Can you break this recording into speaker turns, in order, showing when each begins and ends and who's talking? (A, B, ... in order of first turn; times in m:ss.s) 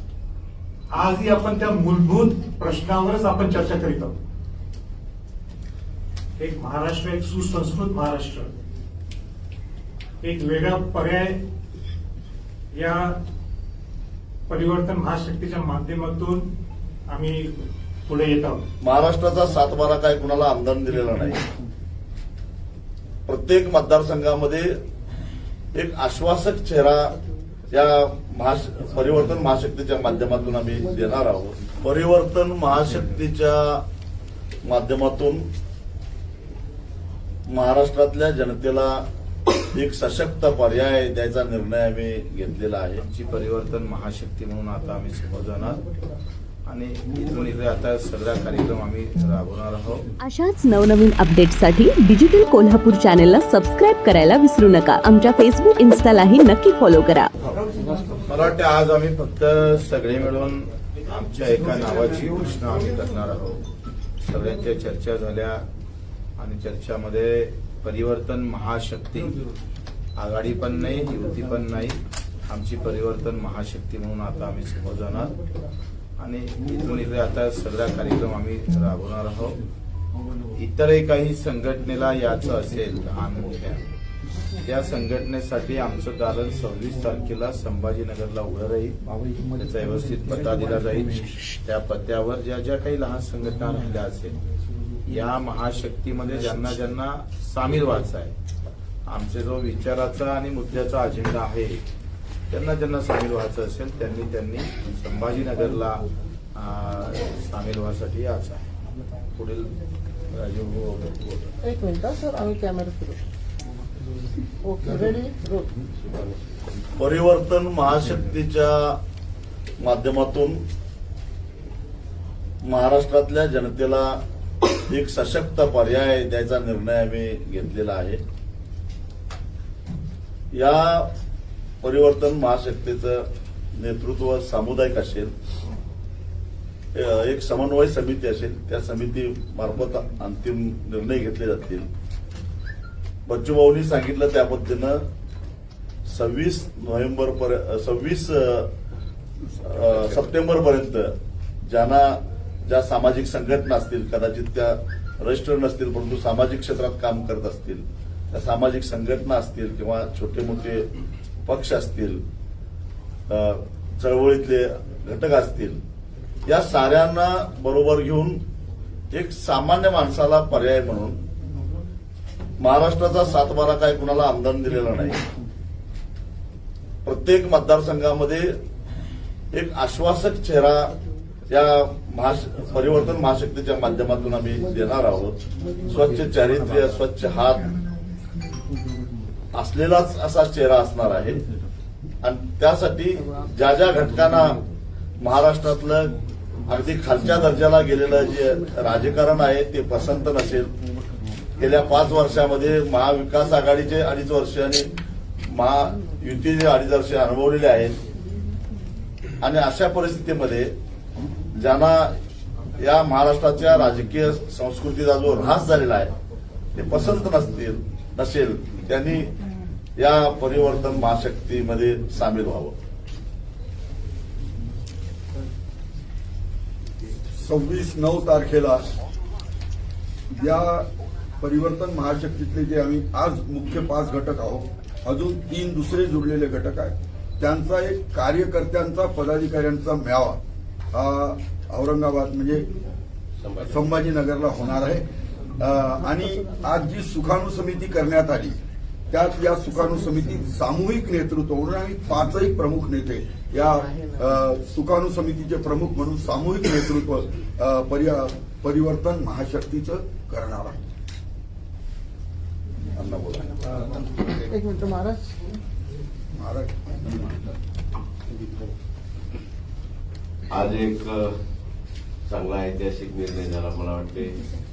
0:00.9-0:04.2 A
0:06.4-0:08.5 A
0:10.2-0:11.4 A
0:12.7-0:13.2 A
0:14.5-0:16.5 A
0:17.1-0:18.6 A
0:18.8-0:21.4 B
0:23.2-0:24.7 B
0:25.7-0:27.2 B
0:27.7-0:33.8 B
0:34.6-0:35.4 B
0:37.5-0:39.1 B
0:39.7-0:43.0 B
0:43.0-0:45.8 C
0:46.7-0:50.0 C
0:50.2-0:57.3 D
0:57.4-0:58.5 A
0:58.3-1:03.6 C
1:04.2-1:05.6 C
1:06.4-1:09.4 C
1:10.2-1:15.3 C
1:16.2-1:19.6 C
1:20.5-1:23.8 C
1:24.6-1:29.0 C
1:29.5-1:34.4 C
1:35.0-1:38.3 C
1:39.1-1:41.8 C
1:42.5-1:48.7 C
1:49.3-1:49.7 C
1:50.3-1:51.5 C
1:51.6-1:53.2 E
1:54.6-1:55.6 E
1:57.0-1:59.0 B
1:59.8-2:00.6 B
2:02.6-2:04.2 B
2:04.9-2:08.2 B
2:10.5-2:11.1 B
2:11.8-2:15.3 B
2:16.9-2:21.9 B
2:23.2-2:25.0 B
2:26.1-2:28.7 B
2:29.6-2:31.1 B
2:31.6-2:40.9 B
2:41.4-2:42.2 B
2:43.3-2:45.8 B
2:46.4-2:48.4 B
2:49.1-2:51.2 B
2:52.6-2:55.2 B
2:57.0-2:58.5 B
2:59.5-3:00.9 B
3:01.5-3:07.7 B
3:09.5-3:11.4 B
3:12.2-3:14.5 B
3:15.2-3:16.1 B
3:16.6-3:20.7 B
3:21.6-3:24.9 B
3:25.5-3:28.0 B
3:29.4-3:30.7 B
3:31.5-3:32.1 B
3:32.8-3:36.1 B
3:36.7-3:39.3 B
3:40.0-3:42.7 B
3:47.3-3:48.8 F
3:50.3-3:50.8 F
3:51.4-4:00.4 F
4:00.9-4:02.7 F
4:03.4-4:04.0 G
4:03.6-4:05.0 F
4:05.6-4:08.6 F
4:09.1-4:20.8 F
4:23.0-4:23.3 F
4:24.4-4:25.0 E
4:26.3-4:27.4 F
4:30.5-4:31.3 G
4:32.3-4:34.5 G